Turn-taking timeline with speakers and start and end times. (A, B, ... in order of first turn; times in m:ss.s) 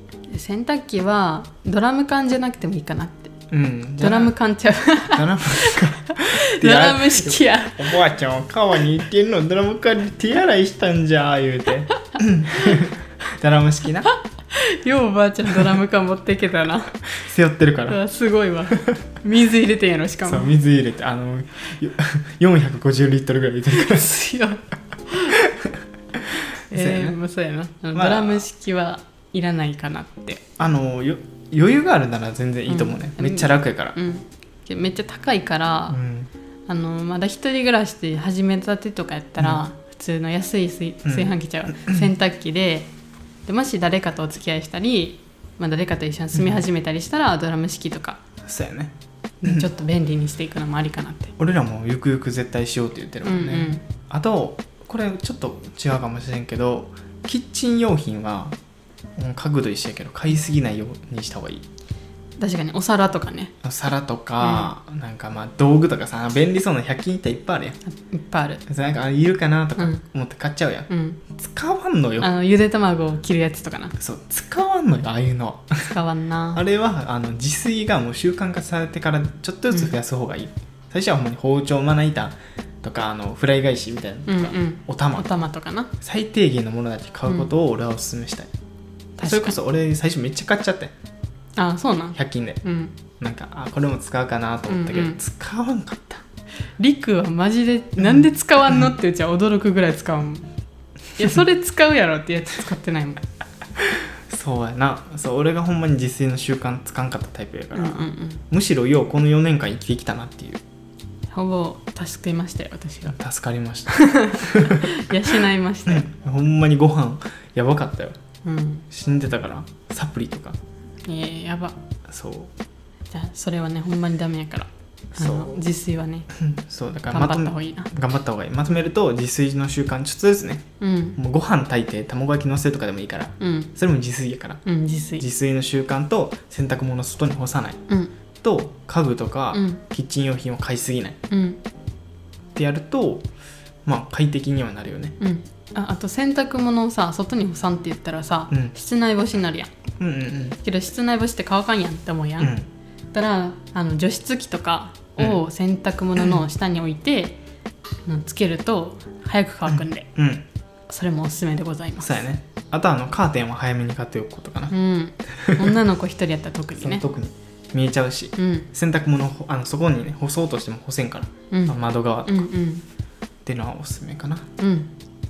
0:00.3-0:03.3 A
0:03.5-0:04.3 B
0:04.0-0:08.0 A
0:05.1-0:14.1 B
0:12.6-0:12.9 A
0:14.1-0:16.9 A
0:17.1-0:18.0 B
0:17.9-0:20.6 A
0:20.3-0:24.1 B
0:23.7-0:25.4 A
0:25.3-0:25.7 B
0:26.3-0:27.2 B
0:26.7-0:30.4 A
0:28.0-0:28.5 B
0:30.6-0:34.0 B
0:32.7-0:36.0 A
0:35.9-0:36.3 B
0:36.7-0:42.9 A
0:41.0-0:42.1 B
0:43.5-0:48.2 A
0:46.4-0:46.6 B
0:48.4-0:48.9 B
0:49.4-0:51.4 A
0:51.4-0:58.6 B
0:53.2-0:53.8 A
0:59.2-1:01.6 B
1:02.4-1:03.5 A
1:03.6-1:07.8 B
1:04.4-1:04.7 A
1:07.9-1:08.6 A
1:08.7-1:12.3 B
1:10.9-1:11.2 A
1:12.2-1:13.9 A
1:14.0-1:16.0 B
1:15.9-1:16.6 A
1:16.5-1:25.3 B
1:24.3-1:25.9 A
1:26.0-1:28.5 B
1:29.2-1:29.6 A
1:29.2-1:30.9 B
1:31.6-1:33.0 A
1:32.2-1:32.6 B
1:33.2-1:36.2 B
1:34.7-1:35.2 A
1:36.8-1:40.5 A
1:38.0-1:38.2 B
1:41.2-1:43.2 A
1:43.8-1:50.6 B
1:47.8-1:48.4 A
1:51.3-1:53.2 A
1:53.1-1:55.0 B
1:53.9-1:56.1 A
1:55.9-1:58.2 B
1:58.4-1:58.9 A
1:58.9-2:00.6 B
2:01.0-2:01.8 A
2:02.1-2:02.5 B
2:03.1-2:06.3 A
2:05.2-2:05.7 B
2:06.3-2:14.6 B
2:07.1-2:07.9 A
2:10.8-2:11.2 A
2:13.4-2:13.7 A
2:14.6-2:15.2 A
2:15.2-2:17.8 B
2:18.4-2:21.2 B
2:19.5-2:19.8 A
2:21.3-2:21.6 A
2:22.6-2:23.3 B
2:23.9-2:25.2 B
2:25.2-2:29.7 A
2:30.0-2:30.6 B
2:30.6-2:32.5 A
2:32.4-2:32.7 B
2:33.1-2:37.4 A
2:38.1-2:40.1 A
2:39.7-2:40.4 B
2:40.9-2:42.2 A
2:42.0-2:44.8 B
2:44.7-2:47.0 A
2:45.3-2:45.8 B
2:46.8-2:52.5 B
2:48.4-2:48.7 A
2:51.5-2:52.8 A
2:53.5-2:54.5 B
2:54.6-2:54.9 A